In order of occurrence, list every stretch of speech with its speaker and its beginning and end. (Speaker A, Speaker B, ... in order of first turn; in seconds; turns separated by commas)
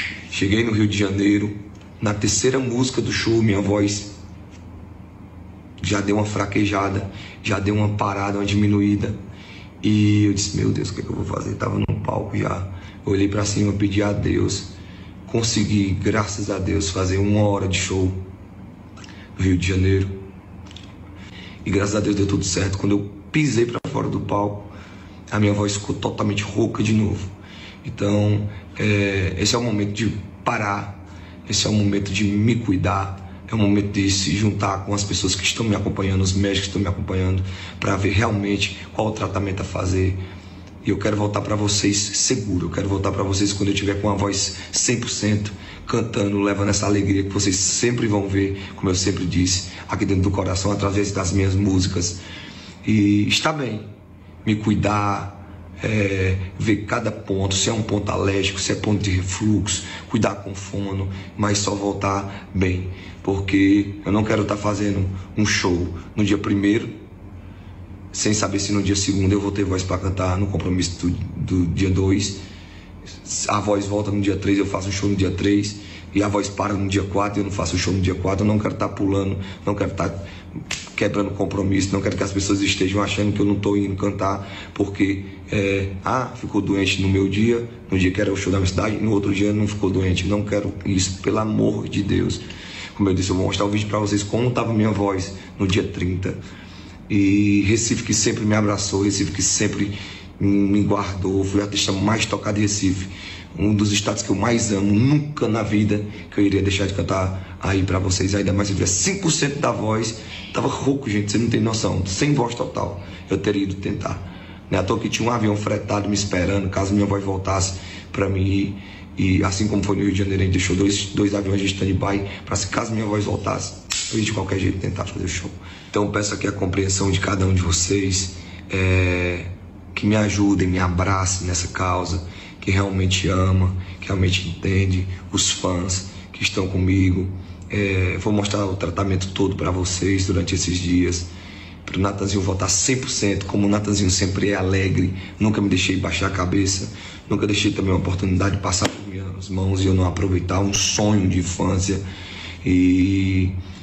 Speaker A: 0.3-4.2, Speaker A: 5.8-9.2, Speaker A: 9.8-14.7, Speaker A: 15.3-18.2, Speaker A: 19.4-20.2, Speaker A: 21.6-24.7, Speaker A: 25.3-27.3, Speaker A: 27.8-40.2, Speaker A: 40.8-52.2, Speaker A: 52.8-53.9, Speaker A: 54.4-67.0, Speaker A: 68.1-72.4, Speaker A: 73.2-80.2, Speaker A: 80.9-96.4, Speaker A: 97.1-141.3, Speaker A: 141.8-152.0, Speaker A: 152.6-153.6